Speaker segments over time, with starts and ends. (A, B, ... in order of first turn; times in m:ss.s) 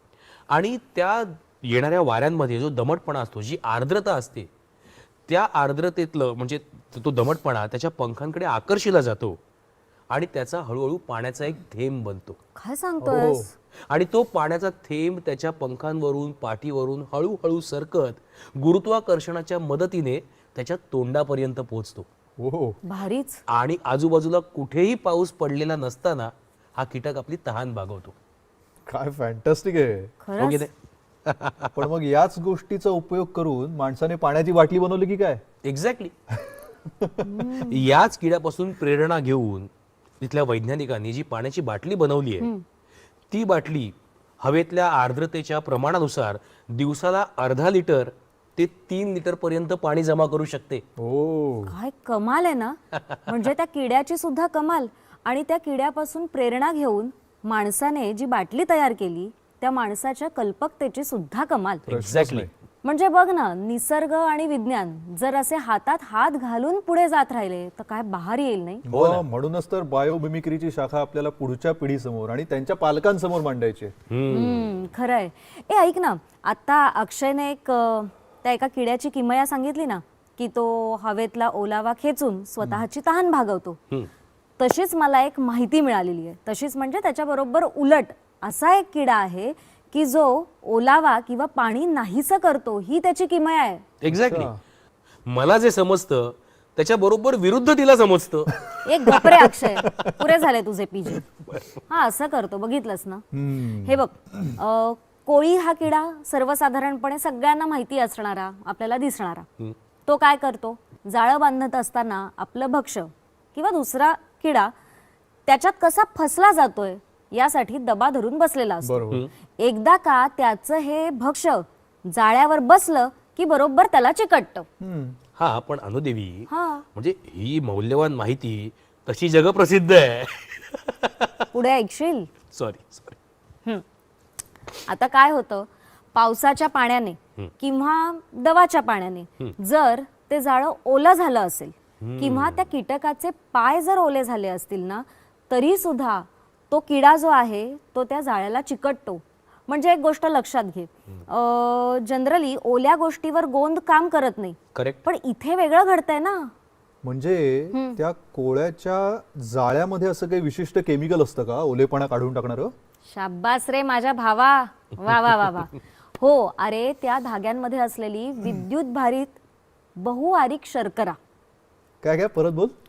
0:00.5-0:04.5 A
0:05.3-0:09.4 A
0:10.1-0:12.4 A
0:12.6-0:13.5 B
0:13.0-0:13.5 C
0:13.9-0:22.1 A
0:22.4-0:22.8 C
0:22.8-0:23.4 B
0:23.5-0:28.1 A
0:28.8-0:30.1 C
0:30.2-0:30.7 B
0:30.4-0:30.7 A
0:31.2-0:31.7 A
0:31.7-0:35.4 C
0:35.6-0:36.1 A
0:36.3-0:37.6 C
0:37.2-0:37.8 B
0:37.7-0:39.7 A
0:40.2-0:42.5 A
0:43.3-0:50.8 A
0:51.0-0:51.7 C
0:51.7-1:01.8 B
1:01.9-1:02.5 A
1:01.9-1:02.5 C
1:02.8-1:08.8 B
1:08.8-1:13.9 C
1:08.9-1:09.2 A
1:14.1-1:14.7 A
1:14.3-1:23.8 B
1:24.6-1:33.8 B
1:34.0-1:34.5 A
1:34.1-1:34.6 C
1:35.3-1:38.6 A
1:38.6-1:40.2 C
1:38.8-1:41.2 B
1:41.9-1:43.2 B
1:43.3-1:44.6 C
1:43.8-1:49.4 B
1:50.0-1:54.7 B
1:55.5-1:59.1 B
1:58.8-1:59.2 C
1:59.6-2:04.7 B
2:04.8-2:05.2 C
2:05.4-2:11.5 A
2:06.5-2:06.8 B
2:11.5-2:12.3 B
2:12.5-2:13.2 A
2:14.9-2:36.5 B
2:22.0-2:22.7 A
2:34.7-2:35.0 A
2:37.0-2:42.7 C
2:37.7-2:38.0 B
2:43.1-2:49.4 B
2:50.0-2:51.2 B
2:52.0-2:52.7 C